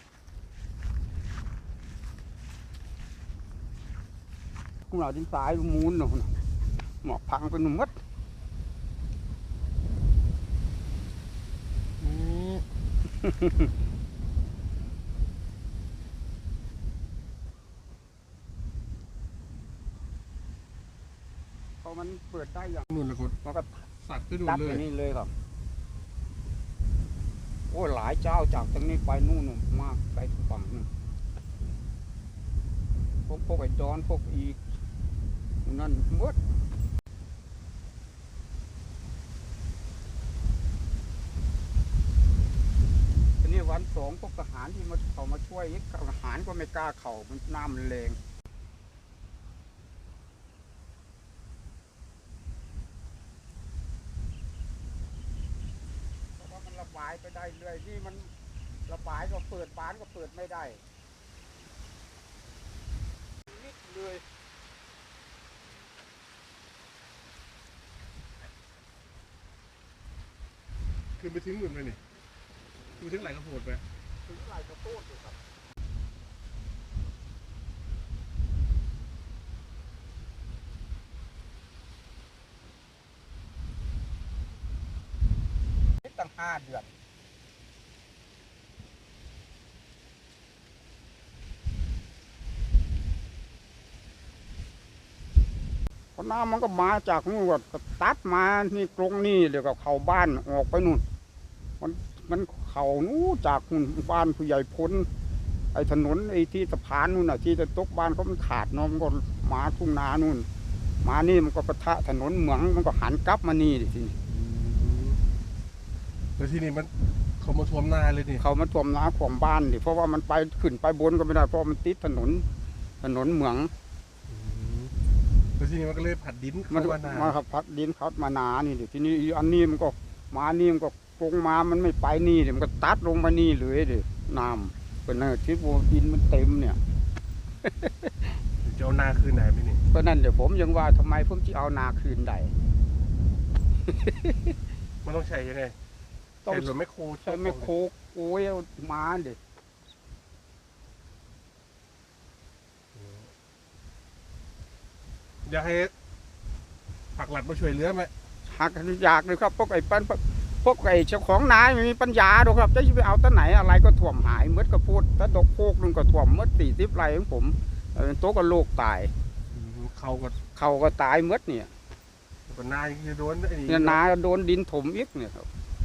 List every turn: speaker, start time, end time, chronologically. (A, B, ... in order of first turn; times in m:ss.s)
0:04.9-0:06.4 A
0:07.0-0:08.0 A
0:12.0-0:12.6 B
0:13.2-0:13.6 A
0:21.8-0:22.9 A
0:22.9-0:23.3 B
0:23.4-0:23.9 A
0:24.0-0:24.8 B
0:24.4-0:25.3 A
0:27.7-0:30.9 A
0:33.3-0:34.6 A
0:35.6-0:36.4 A
0:43.4-0:48.2 A
0:56.4-0:58.3 A
0:58.9-1:00.8 A
1:03.5-1:04.2 A
1:11.2-1:12.0 B
1:13.0-1:13.8 B
1:14.2-1:15.4 A
1:26.0-1:26.9 A
1:36.2-1:41.0 A
1:41.8-1:45.1 A
1:45.7-1:50.5 A
1:51.0-1:54.2 A
1:54.3-1:55.2 B
1:56.4-1:58.4 B
1:58.4-2:02.5 A
2:03.0-2:03.7 A
2:04.3-2:04.9 B
2:05.6-2:07.4 B
2:06.7-2:16.8 A
2:17.6-2:18.4 A
2:18.6-2:19.8 B
2:19.9-2:22.5 A
2:23.8-2:24.6 A
2:25.0-2:25.8 B
2:26.4-2:29.4 A
2:26.5-2:27.7 B
2:32.9-2:33.3 B
2:35.4-2:35.9 B
2:37.2-2:38.1 B
2:38.5-2:49.1 A
2:49.5-2:50.4 B
2:50.5-2:51.7 A
2:52.5-2:54.0 B
2:53.7-2:55.5 A